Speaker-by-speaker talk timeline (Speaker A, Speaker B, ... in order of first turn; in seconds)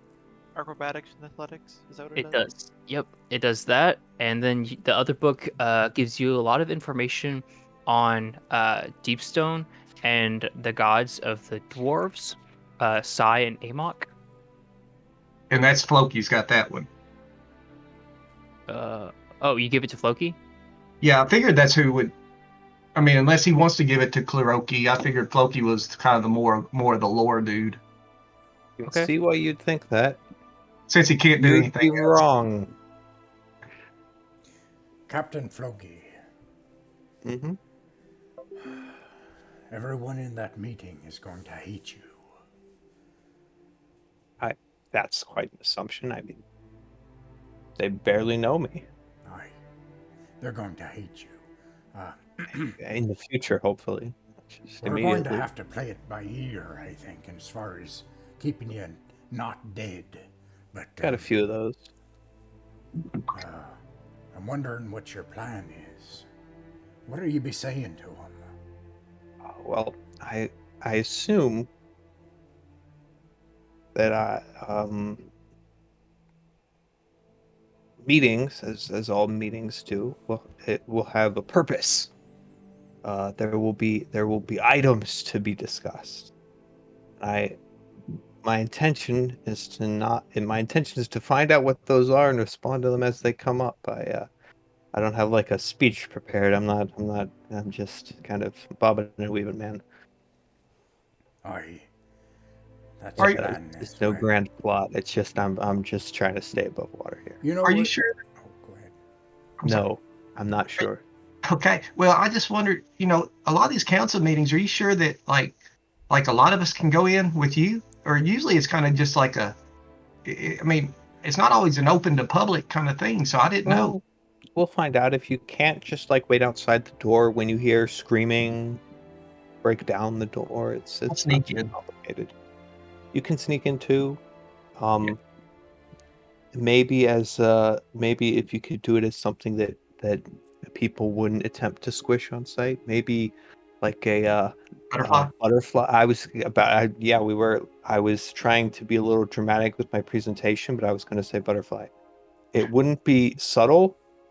Speaker A: 0.6-2.5
Speaker B: 2.1-14.1, 18.7-20.4, 28.9-29.1
Speaker C: 15.5-16.9, 21.0-22.1, 22.9-27.8, 30.9-32.2, 103.2-103.4, 107.7-108.1, 111.5-115.6, 116.1-119.6, 120.2-124.0, 131.1-131.7, 144.9-145.3
Speaker D: 28.8-30.2, 31.4-32.7, 37.2-37.6, 44.4-46.4, 47.8-48.9, 52.6-55.5, 61.0-61.9, 69.4-71.7, 74.0-75.3, 78.0-82.1, 83.0-86.3, 87.2-87.6, 88.4-94.3, 94.9-99.8, 103.2-107.4, 109.7-111.0, 123.7-124.0, 124.6-128.8, 129.6-132.3, 133.1-134.2, 134.8-135.2, 136.5-151.9, 152.5-154.0
Speaker E: 35.1-36.1, 38.6-39.0, 39.7-42.2, 49.2-49.6, 50.4-51.4, 51.9-52.8, 54.8-61.4, 63.3-63.8, 64.3-66.3, 67.1-68.5, 101.4-101.9, 103.0-104.3, 107.4-109.0